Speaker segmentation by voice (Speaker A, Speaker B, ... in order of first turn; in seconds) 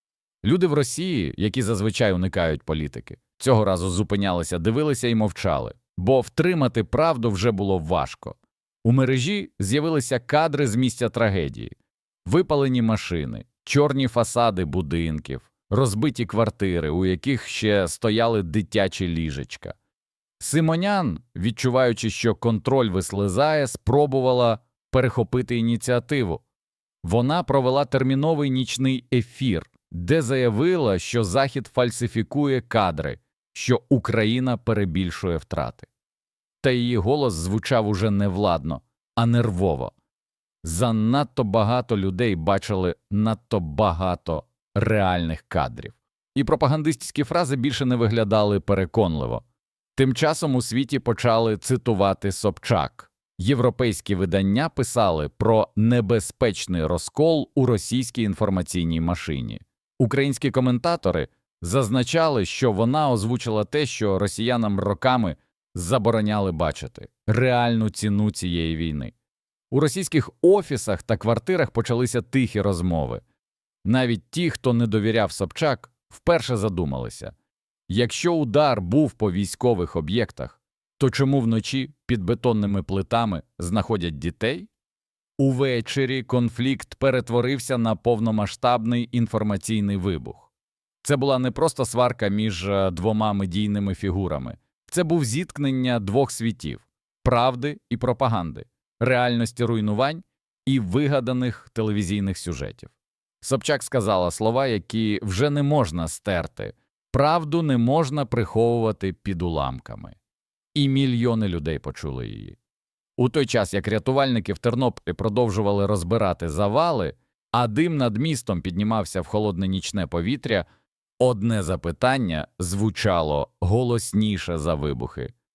Speaker A: 0.4-19.8, 20.4-26.4, 27.0-35.9, 36.6-39.9, 40.6-49.4, 50.0-69.1, 69.7-73.2, 73.8-77.3, 77.9-84.7, 85.4-90.5, 91.0-110.2, 110.8-112.6, 113.2-120.7, 121.2-125.3